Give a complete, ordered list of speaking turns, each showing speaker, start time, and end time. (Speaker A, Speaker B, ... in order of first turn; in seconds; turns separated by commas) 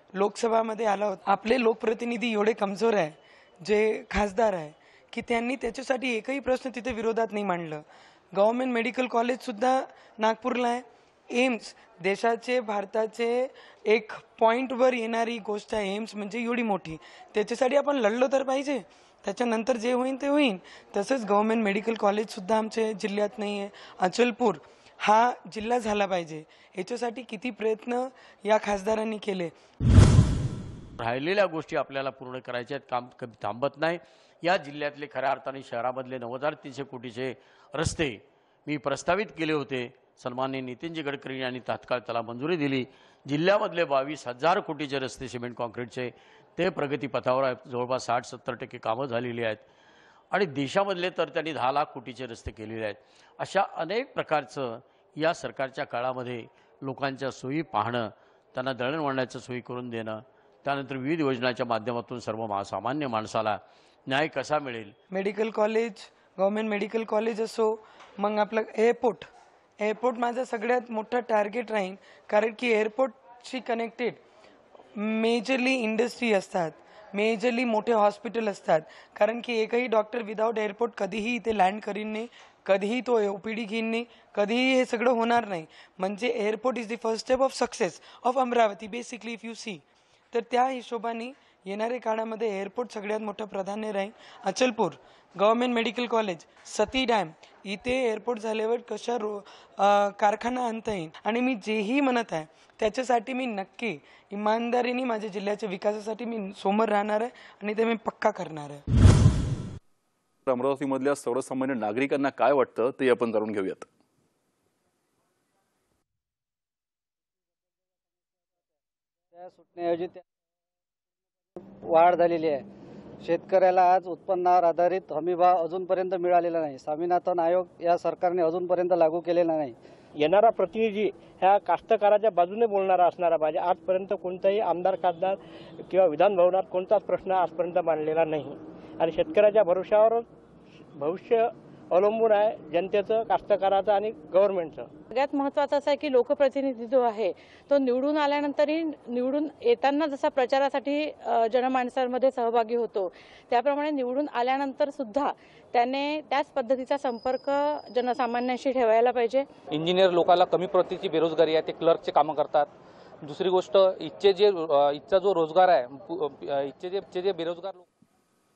Speaker A: 0.1-29.5, Speaker B: 31.0-49.6, Speaker B: 50.3-64.9, Speaker A: 65.1-74.2, Speaker A: 75.0-108.8, Speaker C: 110.5-113.9, Speaker D: 119.3-120.2, Speaker D: 121.9-122.7, Speaker D: 123.2-129.8, Speaker E: 130.2-140.2, Speaker E: 141.0-144.9, Speaker F: 145.1-159.5, Speaker G: 159.7-162.7, Speaker G: 163.2-167.8